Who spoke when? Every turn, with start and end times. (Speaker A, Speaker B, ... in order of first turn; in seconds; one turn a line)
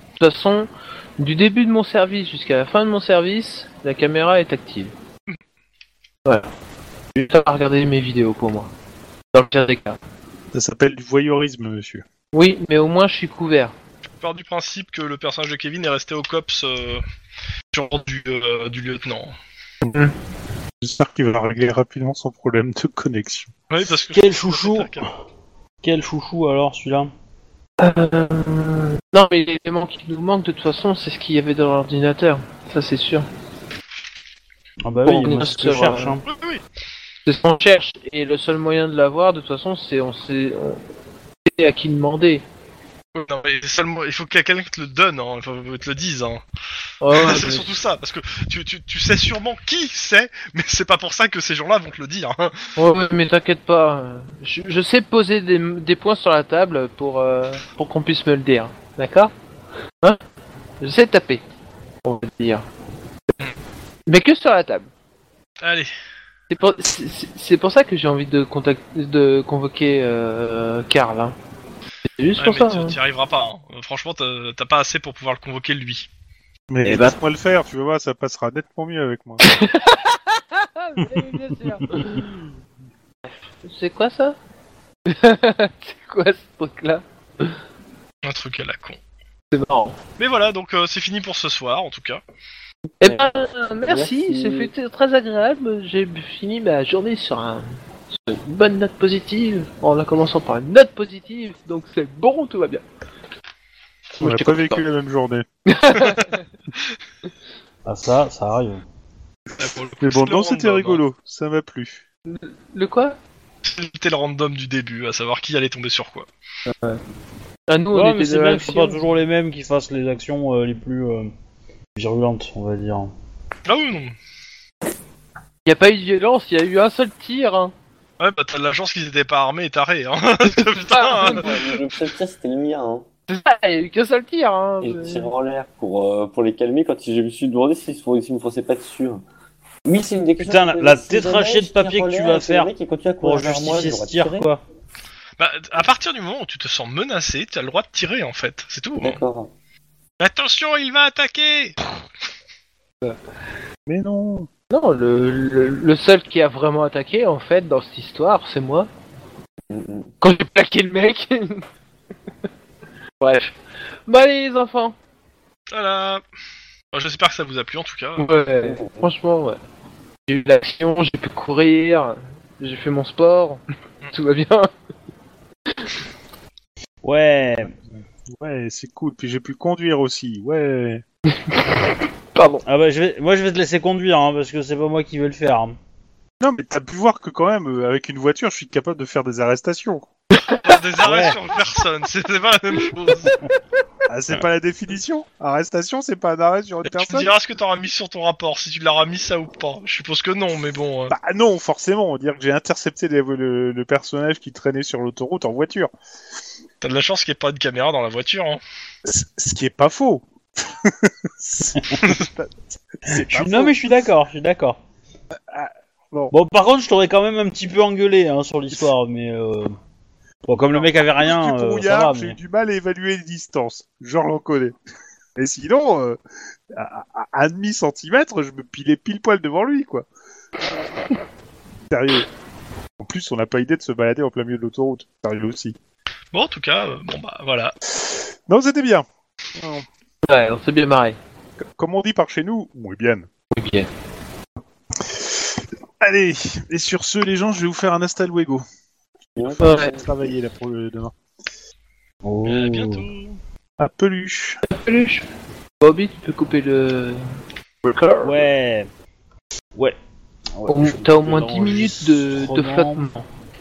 Speaker A: 0.2-4.9
Speaker A: 7.1-8.7
Speaker A: 9.3-10.0
Speaker B: 10.5-12.0
Speaker A: 12.3-13.7
Speaker C: 14.2-17.0
Speaker C: 17.7-19.3
Speaker B: 20.8-23.5
Speaker C: 23.7-25.0
Speaker D: 24.1-25.1
Speaker D: 25.8-27.1
Speaker A: 27.8-33.3
Speaker D: 34.8-36.2
Speaker A: 35.0-36.2
Speaker C: 36.2-36.6
Speaker A: 37.2-40.8
Speaker A: 41.5-42.4
Speaker C: 43.1-46.4
Speaker A: 47.0-47.6
Speaker C: 47.1-52.7
Speaker A: 52.8-59.3
Speaker A: 60.8-61.4
Speaker A: 62.0-62.6
Speaker A: 64.1-64.9
Speaker C: 65.6-65.9
Speaker A: 66.5-71.3
Speaker A: 72.2-73.0
Speaker C: 72.4-76.1
Speaker B: 76.7-79.4
Speaker A: 76.8-77.2
Speaker A: 79.4-82.4
Speaker A: 83.2-84.3
Speaker A: 85.0-87.6
Speaker C: 88.2-89.0
Speaker A: 89.5-90.0
Speaker C: 90.2-92.2
Speaker E: 93.0-93.3
Speaker A: 93.0-102.8
Speaker E: 93.9-94.7
Speaker A: 104.2-104.8
Speaker B: 104.2-105.5
Speaker A: 105.7-106.4
Speaker D: 107.8-108.8
Speaker C: 109.6-111.0
Speaker B: 110.0-112.0
Speaker A: 112.3-113.2
Speaker C: 113.6-116.3
Speaker A: 116.7-117.0
Speaker A: 117.7-119.0
Speaker D: 117.9-121.3
Speaker D: 121.9-123.1
Speaker C: 123.7-124.1
Speaker A: 125.6-127.7
Speaker C: 128.2-131.7
Speaker A: 130.6-131.4
Speaker E: 131.2-133.1
Speaker A: 133.3-135.3
Speaker E: 134.8-139.2
Speaker E: 139.8-144.5
Speaker D: 140.4-144.6
Speaker C: 145.4-149.2
Speaker E: 149.0-149.5
Speaker C: 150.2-151.8
Speaker B: 153.9-154.5
Speaker A: 154.7-158.9
Speaker E: 159.7-160.1
Speaker A: 160.2-161.6
Speaker A: 163.2-163.5
Speaker A: 164.1-164.9
Speaker C: 165.7-166.2
Speaker C: 166.9-168.3
Speaker A: 168.2-169.6
Speaker E: 168.6-169.1
Speaker A: 170.3-174.7
Speaker D: 177.0-177.8
Speaker B: 178.3-181.0
Speaker A: 181.3-181.8
Speaker A: 182.3-182.6
Speaker D: 182.6-185.8
Speaker B: 186.4-190.1
Speaker A: 190.3-190.8
Speaker C: 190.6-193.3
Speaker D: 191.0-191.4
Speaker B: 194.1-197.3
Speaker C: 196.9-201.1
Speaker B: 201.1-205.9
Speaker C: 206.8-208.6
Speaker B: 209.0-210.2
Speaker B: 210.8-213.9
Speaker D: 213.1-214.8
Speaker B: 215.3-216.3
Speaker D: 216.3-219.7
Speaker D: 220.4-222.4
Speaker B: 220.7-224.7
Speaker B: 225.3-226.2
Speaker B: 226.7-230.1
Speaker B: 231.9-232.3
Speaker B: 233.0-235.8
Speaker C: 236.3-237.7
Speaker B: 238.5-239.9
Speaker A: 240.2-241.2
Speaker B: 241.6-243.3
Speaker A: 243.5-243.9
Speaker B: 245.0-248.7
Speaker B: 249.4-251.1
Speaker E: 249.4-250.0
Speaker A: 249.6-249.9
Speaker D: 252.2-253.1
Speaker C: 252.4-253.4
Speaker B: 253.8-254.6
Speaker A: 254.7-255.2
Speaker A: 255.8-257.2
Speaker A: 257.8-258.5
Speaker D: 258.2-258.9
Speaker D: 260.6-263.1
Speaker A: 260.7-263.2